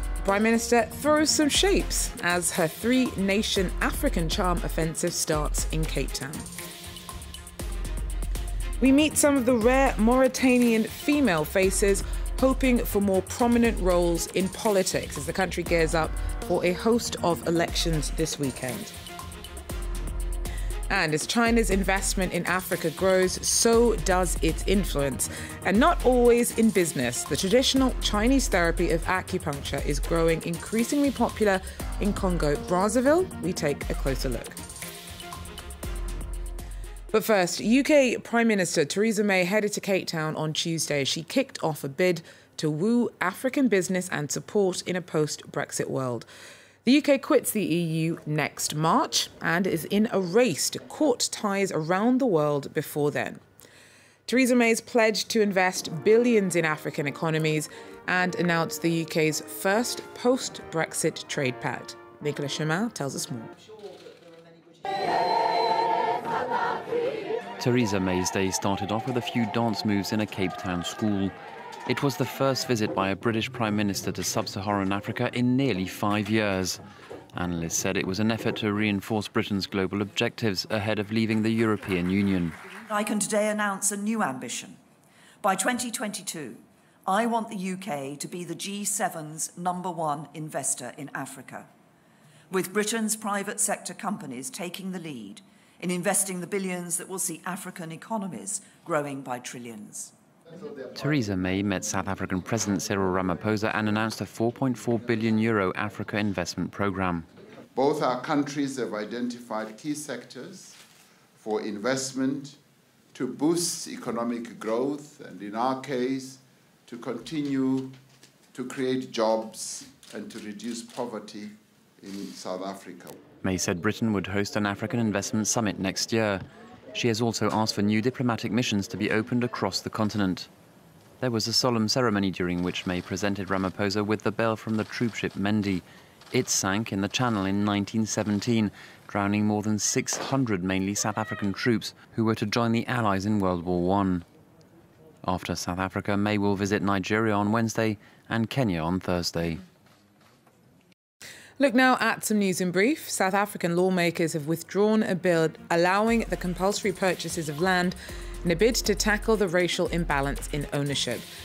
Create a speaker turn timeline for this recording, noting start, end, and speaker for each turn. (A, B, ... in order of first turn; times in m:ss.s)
0:00.2-0:06.5 A
0:08.8-0:18.9 A
0:20.9-0:34.6 A
0:37.1-0:46.3 A
0:46.8-0:53.4 A
0:54.3-1:03.5 A
1:07.6-1:11.3 B
1:11.9-1:16.8 B
1:17.3-1:22.6 B
1:22.9-1:24.8 C
1:25.4-1:31.7 C
1:32.5-1:40.1 C
1:40.9-1:47.3 B
1:47.7-1:50.8 D
1:51.4-1:52.6 D
1:53.1-1:58.0 D
1:58.5-2:03.2 D
2:03.4-2:06.4 B
2:06.9-2:10.5 B
2:11.2-2:24.2 B
2:25.2-2:29.6 B
2:31.6-2:41.2 A